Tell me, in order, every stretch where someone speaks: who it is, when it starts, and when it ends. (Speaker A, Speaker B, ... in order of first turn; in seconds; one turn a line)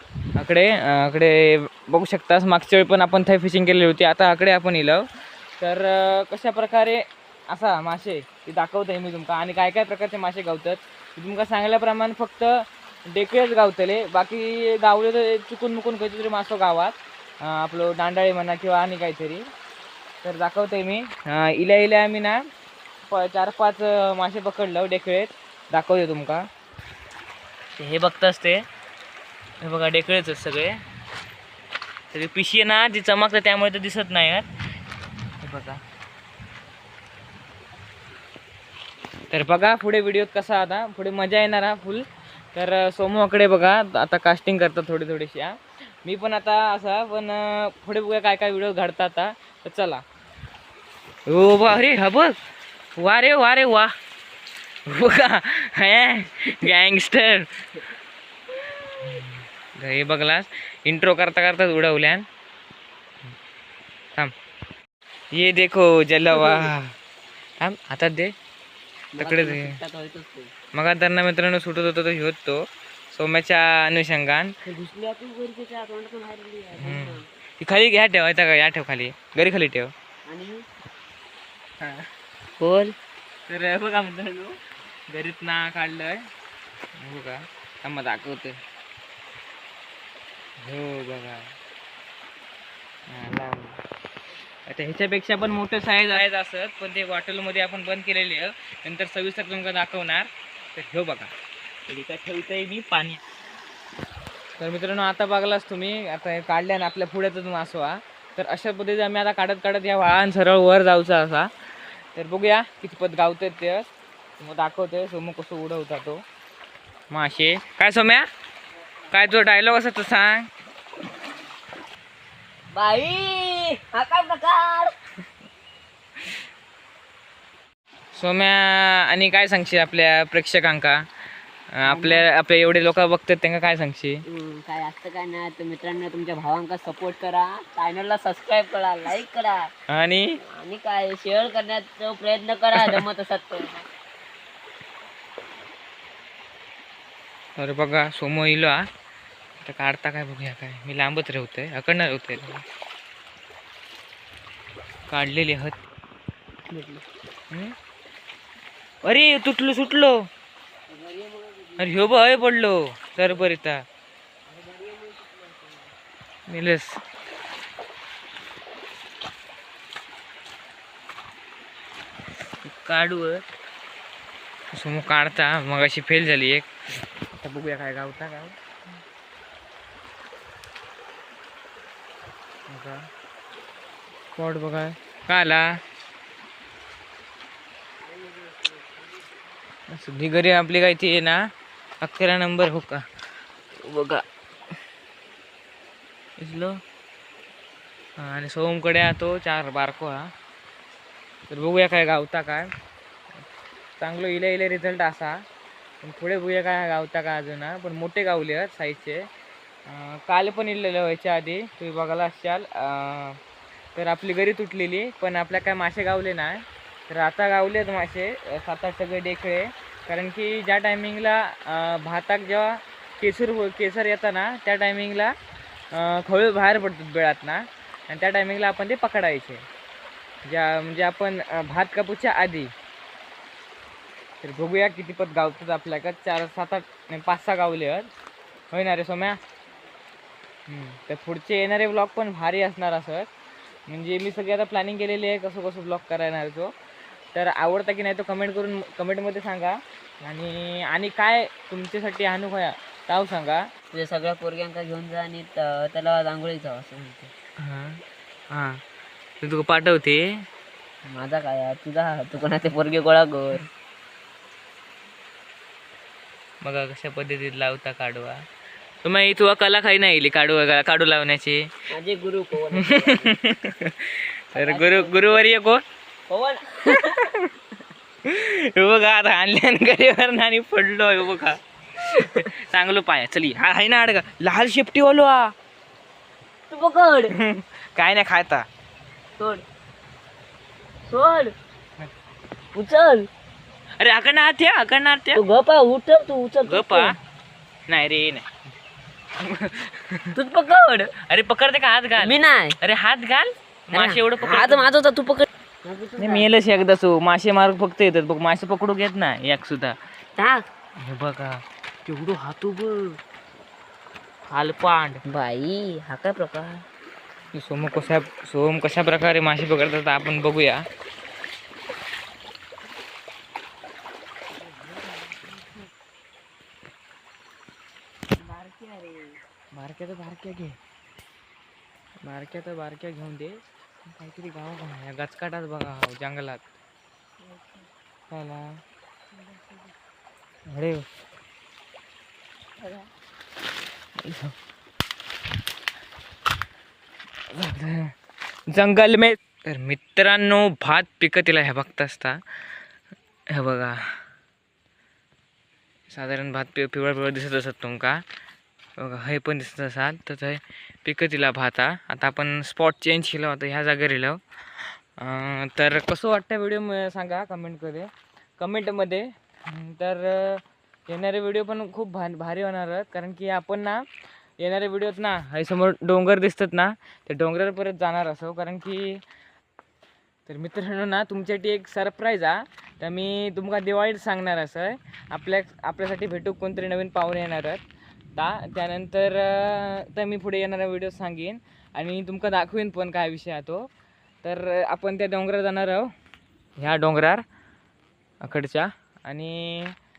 Speaker A: 0.3-5.1
Speaker A: 5.6-19.4
Speaker A: 20.2-22.4
Speaker A: 23.1-26.4
Speaker A: 27.8-28.6
Speaker A: 29.6-30.8
Speaker A: 32.1-34.5
Speaker A: 35.4-35.8
Speaker A: 39.3-50.0
Speaker A: 51.3-52.4
Speaker A: 53.0-53.9
Speaker A: 54.9-57.6
Speaker A: 58.9-62.2
Speaker A: 65.3-66.9
Speaker B: 66.3-66.7
Speaker A: 67.6-68.3
Speaker B: 69.1-70.5
Speaker A: 69.2-69.8
Speaker A: 70.7-74.5
Speaker B: 74.6-77.2
Speaker A: 76.8-79.9
Speaker B: 80.3-80.6
Speaker A: 81.8-82.1
Speaker B: 82.6-82.9
Speaker A: 83.5-84.6
Speaker A: 85.1-86.2
Speaker A: 87.0-88.6
Speaker A: 90.6-91.5
Speaker A: 93.1-93.8
Speaker A: 94.7-101.3
Speaker A: 101.9-103.2
Speaker A: 104.6-111.5
Speaker A: 112.1-116.2
Speaker A: 117.1-118.3
Speaker A: 119.1-120.5
Speaker B: 122.7-125.0
Speaker A: 128.2-131.1
Speaker A: 131.7-134.2
Speaker B: 131.8-132.2
Speaker B: 134.3-139.7
Speaker A: 139.9-140.4
Speaker B: 140.4-143.8
Speaker A: 147.6-148.8
Speaker A: 149.6-152.6
Speaker A: 155.1-155.8
Speaker B: 156.6-157.0
Speaker A: 159.0-160.3
Speaker B: 160.9-162.1
Speaker A: 161.8-163.8
Speaker B: 163.2-163.5
Speaker B: 164.5-165.9
Speaker A: 166.5-167.0
Speaker A: 172.6-173.4
Speaker A: 174.7-176.7
Speaker A: 177.2-178.6
Speaker A: 182.7-183.1
Speaker A: 184.3-185.8
Speaker B: 188.0-189.4
Speaker A: 189.9-191.4
Speaker A: 192.0-193.0
Speaker A: 193.8-194.2
Speaker A: 196.4-196.8
Speaker A: 198.2-200.3
Speaker A: 201.5-202.7
Speaker A: 204.0-205.4
Speaker A: 206.0-209.3
Speaker A: 209.9-213.4
Speaker A: 213.9-225.3
Speaker A: 225.9-229.6
Speaker A: 230.4-232.7
Speaker A: 234.4-238.1
Speaker A: 238.7-239.4
Speaker A: 240.7-243.3
Speaker A: 243.9-246.7
Speaker A: 247.3-253.7
Speaker B: 253.9-257.3
Speaker A: 257.6-258.8
Speaker A: 259.4-260.4
Speaker B: 261.0-263.6
Speaker A: 266.6-268.4
Speaker A: 269.0-271.7
Speaker B: 271.9-273.4
Speaker A: 272.7-275.8
Speaker B: 274.5-275.4
Speaker B: 276.3-277.2
Speaker A: 276.9-277.5
Speaker A: 278.2-285.5
Speaker B: 286.7-287.3
Speaker A: 287.3-288.6
Speaker B: 289.4-289.6
Speaker B: 291.1-291.5
Speaker B: 292.7-293.3
Speaker A: 294.0-295.4
Speaker B: 295.3-297.1
Speaker A: 296.7-297.1
Speaker A: 297.9-298.5
Speaker A: 299.4-300.4
Speaker B: 300.4-301.1
Speaker A: 301.2-304.9
Speaker B: 302.2-302.8
Speaker B: 303.9-306.5
Speaker A: 306.2-310.0
Speaker B: 310.4-310.6
Speaker A: 311.0-313.2
Speaker A: 314.5-315.2
Speaker B: 315.2-316.8
Speaker A: 317.5-320.8
Speaker B: 324.6-325.5
Speaker B: 328.4-329.4
Speaker A: 329.7-330.8
Speaker A: 332.2-336.7
Speaker B: 337.4-337.9
Speaker A: 338.3-338.8
Speaker B: 339.3-339.9
Speaker A: 340.7-341.0
Speaker B: 342.8-343.1
Speaker A: 344.2-344.5
Speaker A: 347.5-348.1
Speaker A: 348.7-352.4
Speaker A: 353.5-354.1
Speaker A: 356.1-358.2
Speaker A: 359.0-374.1
Speaker A: 374.6-379.2
Speaker A: 380.4-387.8
Speaker A: 388.4-393.9
Speaker A: 394.4-396.1
Speaker A: 396.8-397.4
Speaker A: 398.4-399.9